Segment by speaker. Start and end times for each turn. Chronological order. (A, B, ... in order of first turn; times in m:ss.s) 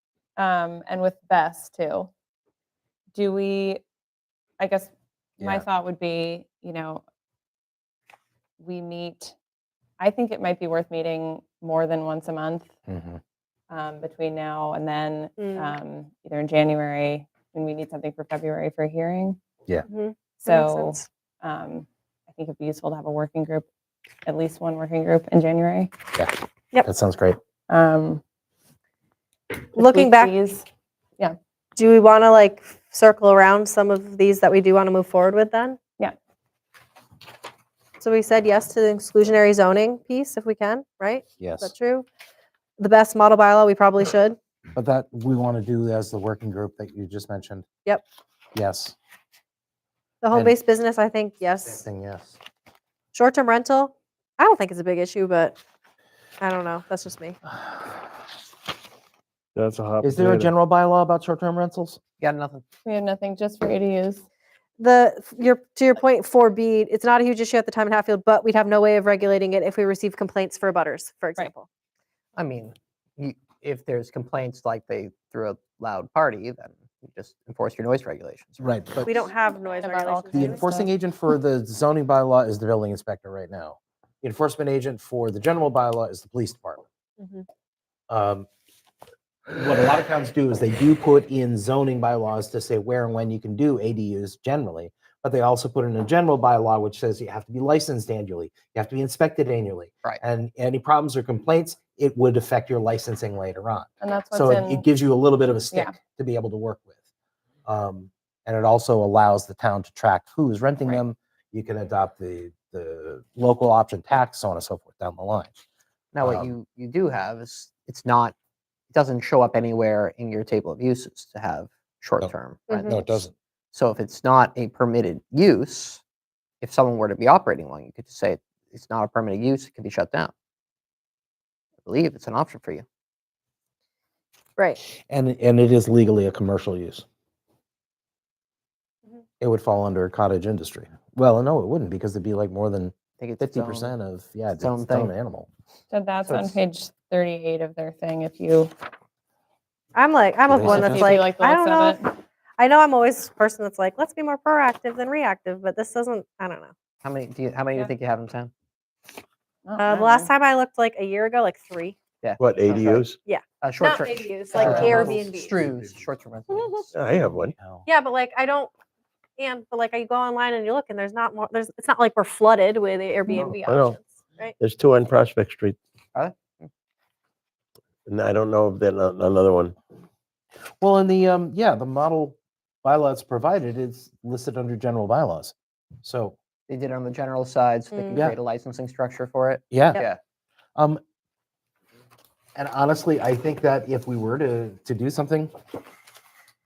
0:00.4-0:02.1 A
0:03.1-0:03.8 A
0:04.6-0:07.0 A
0:05.4-0:05.6 B
0:08.6-0:09.3 A
0:10.0-0:12.7 A
0:12.9-0:13.2 B
0:13.7-0:19.4 A
0:15.4-0:15.7 C
0:19.9-0:21.0 C
0:20.4-0:23.7 A
0:24.2-0:25.9 A
0:26.8-0:27.4 B
0:27.7-0:28.2 A
0:29.7-0:30.6 A
0:29.8-0:30.3 C
0:31.8-0:35.8 C
0:38.0-0:42.0 C
0:41.4-0:41.7 B
0:42.8-0:44.4 C
0:44.7-0:47.6 B
0:48.5-0:48.9 B
0:50.2-0:51.8 C
0:51.7-0:52.4 B
0:53.1-0:55.6 C
0:56.4-0:57.4 C
0:59.5-1:00.5 D
1:00.0-1:02.0 B
1:02.2-1:02.6 E
1:02.8-1:04.2 A
1:04.8-1:11.7 C
1:12.4-1:19.1 E
1:18.6-1:19.1 B
1:19.0-1:20.6 C
1:19.4-1:20.9 A
1:20.3-1:26.8 B
1:27.2-1:27.4 C
1:28.1-1:28.5 B
1:29.5-1:46.9 B
1:44.0-1:44.8 A
1:47.6-1:55.5 B
1:56.1-1:58.3 E
1:56.2-1:56.5 B
1:58.9-2:03.2 E
2:02.7-2:03.0 C
2:02.8-2:03.3 B
2:03.7-2:06.0 E
2:06.6-2:10.3 E
2:11.8-2:12.8 E
2:15.1-2:17.0 B
2:19.4-2:25.5 B
2:23.2-2:23.9 E
2:24.6-2:25.1 E
2:25.9-2:28.7 A
2:26.2-2:26.6 E
2:29.9-2:36.7 C
2:30.5-2:31.1 B
2:30.6-2:31.0 E
2:30.6-2:32.0 A
2:37.0-2:38.5 E
2:39.6-2:40.3 A
2:39.8-2:42.0 C
2:42.2-2:43.0 E
2:42.4-2:43.2 F
2:43.2-2:45.6 C
2:43.6-2:46.9 E
2:44.5-2:46.0 D
2:46.9-2:47.5 F
2:47.4-2:47.9 B
2:47.8-2:48.7 C
2:49.4-2:54.5 C
2:53.6-2:54.0 F
2:54.6-2:55.8 F
2:56.1-2:56.7 E
2:58.1-2:59.7 F
3:00.8-3:06.4 B
3:06.7-3:10.2 E
3:07.9-3:08.2 C
3:09.7-3:10.0 B
3:10.8-3:11.0 B
3:12.6-3:15.5 B